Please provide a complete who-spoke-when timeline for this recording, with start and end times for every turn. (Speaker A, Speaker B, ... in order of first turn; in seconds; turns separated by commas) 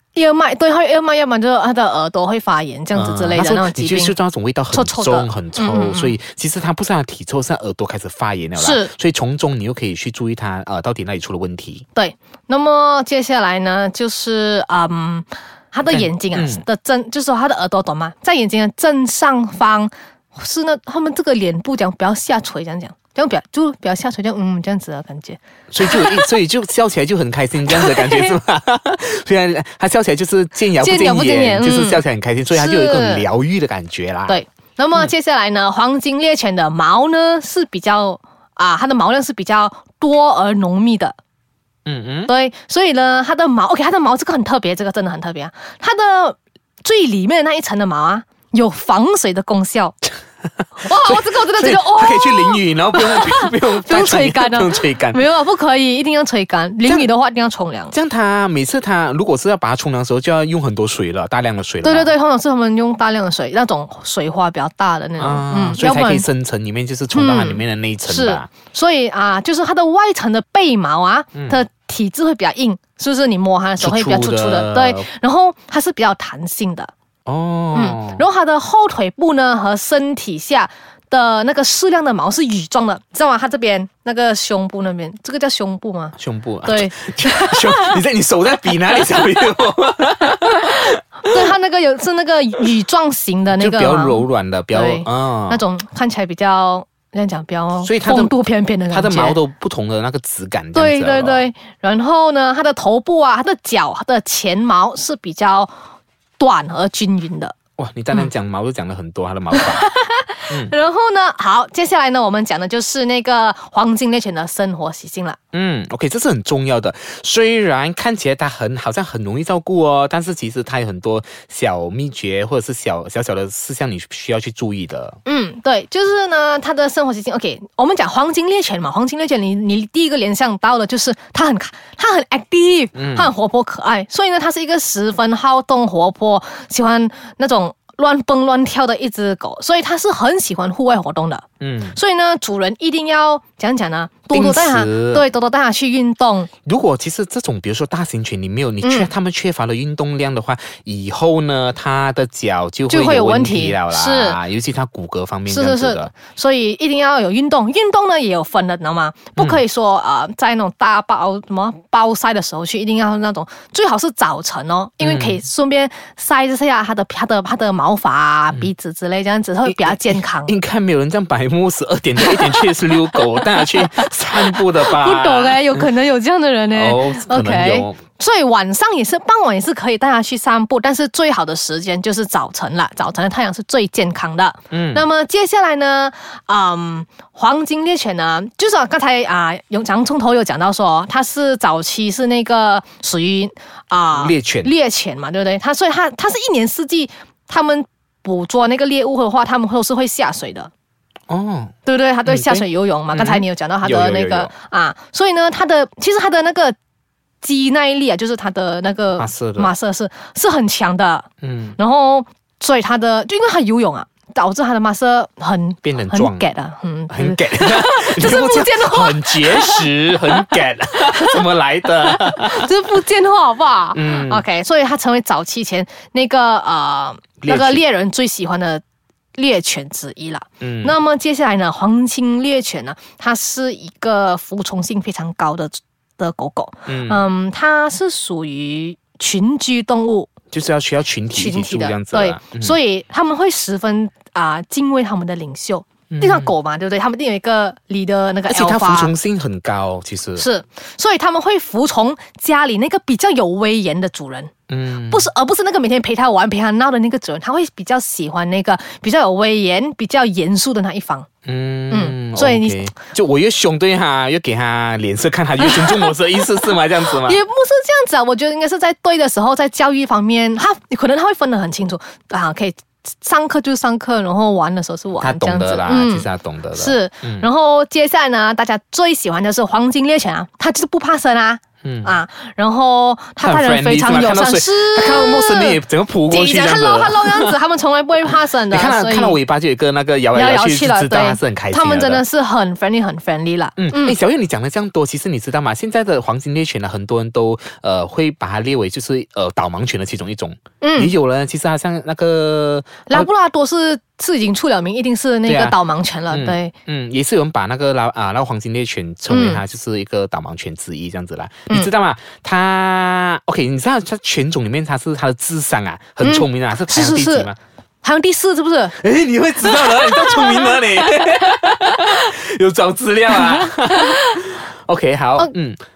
Speaker A: 0.1-4.2, Speaker B: 2.9-11.8, Speaker A: 4.7-6.2, Speaker A: 8.6-8.9, Speaker A: 11.9-26.3, Speaker B: 15.9-16.6, Speaker B: 25.7-34.4, Speaker A: 27.7-28.4, Speaker A: 30.8-33.3, Speaker A: 34.3-41.2, Speaker B: 41.9-42.3, Speaker A: 42.3-50.0, Speaker A: 50.8-58.0, Speaker B: 50.8-55.2, Speaker B: 57.9-62.1, Speaker A: 61.8-66.3, Speaker B: 65.2-68.5, Speaker A: 67.1-76.9, Speaker B: 71.3-71.6, Speaker B: 73.8-75.0, Speaker B: 77.3-78.2, Speaker A: 77.7-88.0, Speaker B: 86.2-91.4, Speaker A: 91.2-99.4, Speaker B: 93.5-95.6, Speaker B: 97.8-98.3, Speaker B: 98.9-101.5, Speaker A: 100.7-105.7, Speaker A: 106.4-107.5, Speaker B: 107.8-109.9, Speaker A: 109.5-115.4, Speaker B: 110.5-110.7, Speaker B: 115.5-125.2, Speaker A: 125.2-146.5, Speaker B: 132.9-133.3, Speaker B: 141.6-142.0, Speaker B: 144.3-145.3, Speaker B: 146.7-156.1, Speaker A: 148.8-149.1, Speaker A: 152.9-154.4, Speaker A: 155.5-170.6, Speaker B: 159.4-159.6, Speaker B: 165.0-165.4, Speaker B: 169.7-175.9, Speaker A: 172.2-200.7, Speaker B: 176.7-178.0, Speaker B: 184.7-185.1, Speaker B: 194.1-194.7, Speaker B: 201.3-201.7, Speaker A: 201.9-206.8, Speaker B: 202.3-204.5, Speaker A: 207.4-221.4, Speaker B: 209.2-209.7, Speaker B: 211.4-211.8, Speaker B: 215.8-216.5, Speaker B: 217.1-222.7, Speaker A: 222.0-228.8, Speaker B: 223.9-224.4, Speaker B: 227.4-227.8, Speaker A: 229.4-240.3, Speaker B: 230.6-231.0, Speaker B: 236.9-237.2, Speaker B: 240.5-242.8, Speaker A: 241.3-249.1, Speaker B: 246.1-246.5, Speaker B: 248.5-250.5, Speaker A: 250.4-254.5, Speaker B: 254.7-255.3, Speaker A: 255.1-261.3, Speaker B: 261.5-267.4, Speaker A: 261.9-262.8, Speaker A: 265.6-289.4, Speaker B: 275.2-277.5, Speaker B: 281.8-282.2, Speaker B: 283.4-287.6, Speaker B: 288.7-292.2, Speaker A: 290.3-294.2, Speaker B: 293.8-303.3, Speaker A: 300.8-301.1, Speaker A: 303.1-306.7, Speaker B: 305.5-305.8, Speaker B: 306.3-317.6, Speaker A: 309.3-309.6, Speaker A: 316.2-317.5, Speaker A: 318.0-319.0, Speaker B: 318.9-325.8, Speaker A: 319.6-321.2, Speaker A: 323.9-324.4